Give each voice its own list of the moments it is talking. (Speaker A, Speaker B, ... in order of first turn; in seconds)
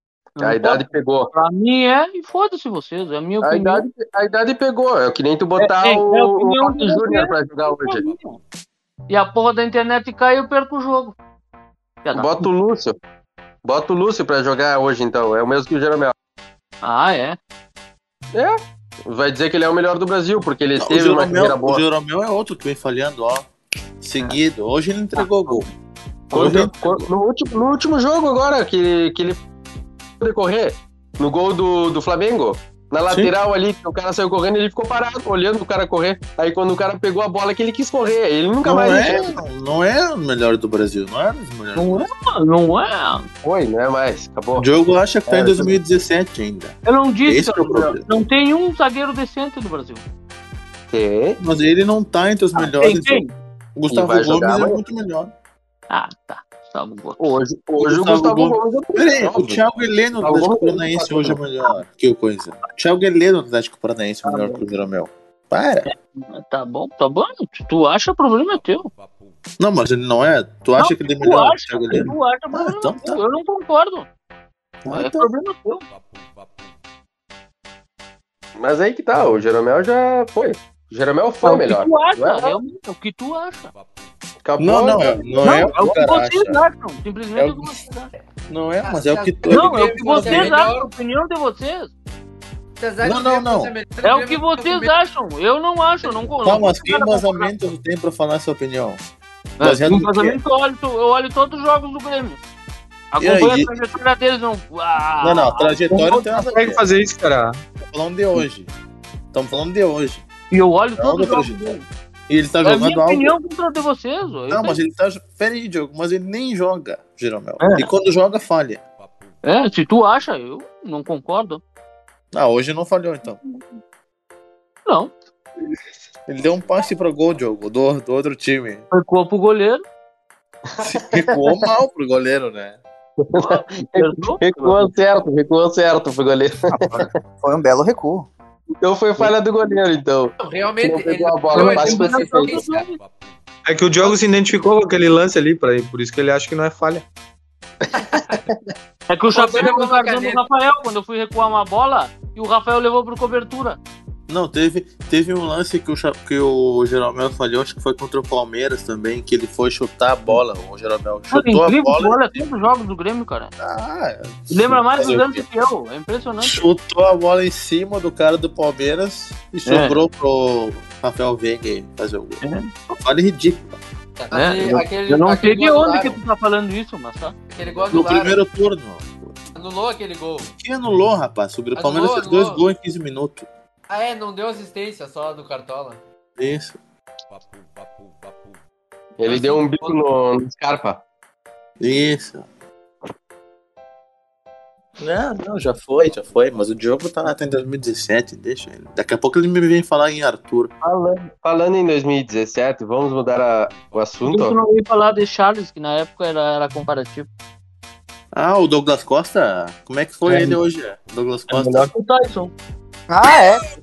Speaker A: 0.4-3.9, 5.6-8.4, 9.1-11.2, 12.0-12.5, 16.8-17.4, 25.2-25.6, 41.8-43.3, 46.9-50.0, 52.6-53.3, 55.9-57.4, 64.2-64.6, 65.9-68.9, 70.8-74.1, 74.9-75.9, 81.4-83.7, 85.4-88.1, 89.5-91.9, 94.0-97.5, 99.6-102.4, 103.1-106.4, 110.5-111.8, 112.6-114.8, 117.6-117.9, 119.4-121.6, 124.9-125.1, 128.9-129.8, 133.4-134.9, 141.5-143.0, 149.1-153.8, 161.3-163.5, 164.5-166.6, 169.7-170.0, 172.4-172.7, 174.3-177.3, 204.2-207.3, 210.3-210.6, 211.5-212.5
Speaker B: 0.4-1.3, 3.4-8.1, 12.1-13.0, 13.7-16.1, 18.3-21.8, 26.3-29.4, 30.2-39.4, 43.4-44.7, 45.3-45.7, 50.9-51.4, 53.9-54.8, 57.2-59.6, 60.2-61.4, 78.6-82.6, 84.5-85.7, 133.2-137.1, 138.8-142.7, 189.2-191.0, 200.8-204.6
Speaker C: 20.8-23.5, 24.0-25.7, 26.3-27.1, 38.6-42.1, 44.6-48.0, 51.4-53.2, 53.8-55.3, 57.8-65.9, 69.6-73.2, 74.8-75.3, 84.6-86.6, 87.3-87.7, 88.5-90.5, 93.0-93.7, 96.4-99.0, 99.6-100.4, 103.2-103.8, 105.2-106.8, 107.8-108.7, 109.3-110.2, 111.0-111.8, 112.3-113.3, 114.5-118.8, 122.3-123.4, 126.3-128.8, 130.8-132.8, 154.3-162.4, 163.6-165.4, 166.4-173.8, 177.9-179.3, 180.6-183.5, 186.4-186.8, 191.8-192.5, 195.0-200.7, 208.3-211.9
Speaker D: 88.8-90.9, 92.8-94.9, 140.4-142.9, 149.3-150.4, 174.2-176.2, 177.5-178.4, 179.6-180.5, 181.8-182.7, 183.9-186.0, 189.3-190.0
Speaker E: 105.9-107.6, 143.7-147.0
Speaker F: 136.7-138.3, 213.1-213.6